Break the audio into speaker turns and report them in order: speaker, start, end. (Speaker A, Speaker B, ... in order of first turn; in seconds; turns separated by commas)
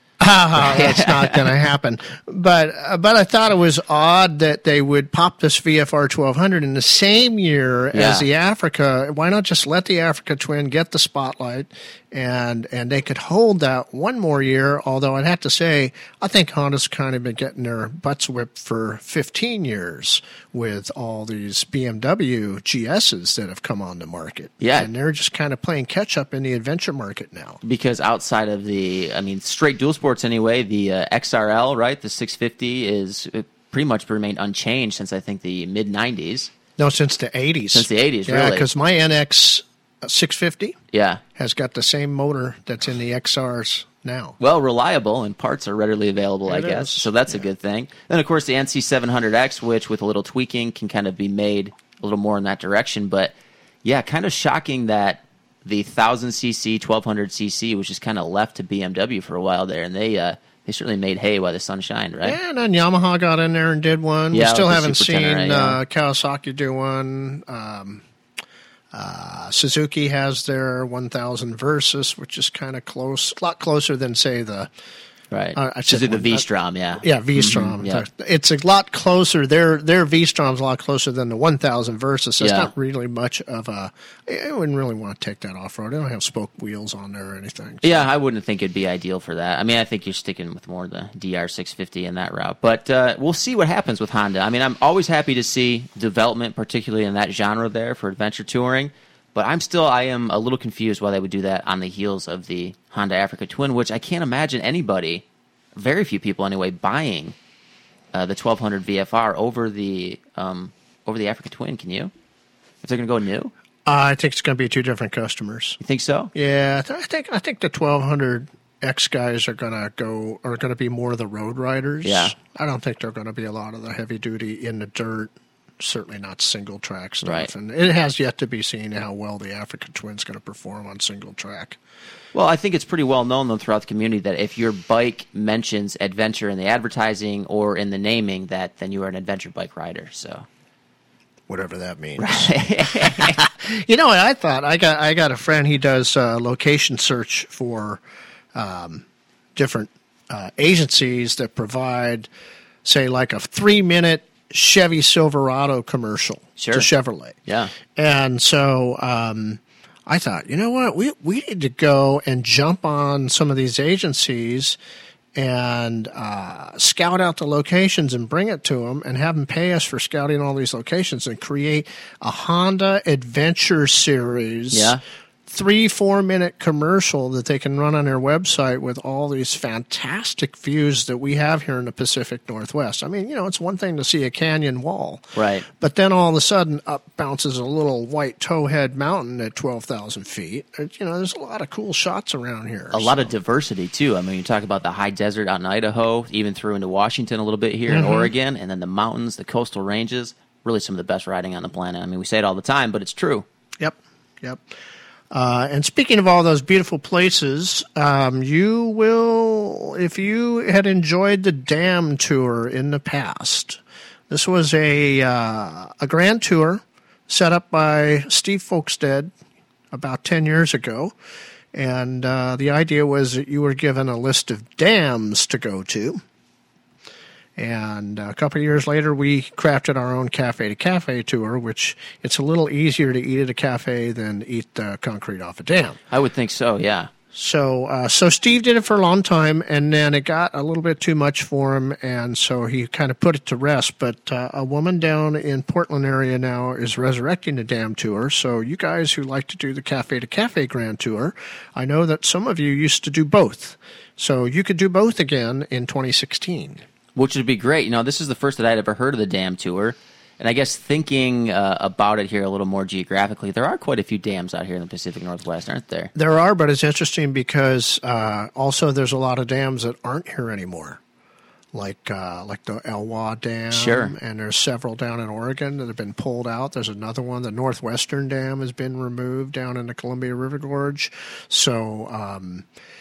Speaker A: 0.2-27.6, Speaker B: 0.6-1.5, Speaker B: 7.9-8.3, Speaker B: 24.6-24.9, Speaker B: 27.6-36.5, Speaker A: 36.8-40.8, Speaker B: 37.7-38.7, Speaker B: 40.9-41.2, Speaker A: 41.4-44.4, Speaker B: 44.4-53.3, Speaker A: 46.5-47.4, Speaker B: 53.8-62.4, Speaker A: 62.2-68.0, Speaker B: 64.3-65.8, Speaker A: 68.9-74.7, Speaker B: 75.3-78.0, Speaker A: 75.5-76.5, Speaker A: 77.0-88.1, Speaker B: 82.4-82.7, Speaker B: 87.8-105.2, Speaker B: 105.8-107.3, Speaker B: 108.1-112.1, Speaker B: 112.8-113.5, Speaker A: 113.9-115.8, Speaker B: 115.8-116.3, Speaker A: 116.3-131.8, Speaker B: 122.0-122.3, Speaker B: 127.2-127.5, Speaker B: 132.3-140.5, Speaker A: 141.5-148.0, Speaker B: 142.2-143.4, Speaker A: 148.5-152.3, Speaker A: 152.8-157.4, Speaker B: 156.6-156.9, Speaker B: 157.5-157.7, Speaker A: 157.9-164.8, Speaker A: 165.3-193.3, Speaker B: 174.7-175.0, Speaker B: 185.3-185.7, Speaker B: 192.9-203.4, Speaker A: 197.9-198.3, Speaker A: 203.8-204.7, Speaker A: 205.3-219.3, Speaker A: 219.9-221.2, Speaker A: 221.7-226.2, Speaker A: 227.6-236.0, Speaker B: 236.1-237.1, Speaker A: 237.3-256.8, Speaker B: 257.1-266.1, Speaker A: 266.1-271.0, Speaker A: 271.7-282.7, Speaker B: 273.7-274.1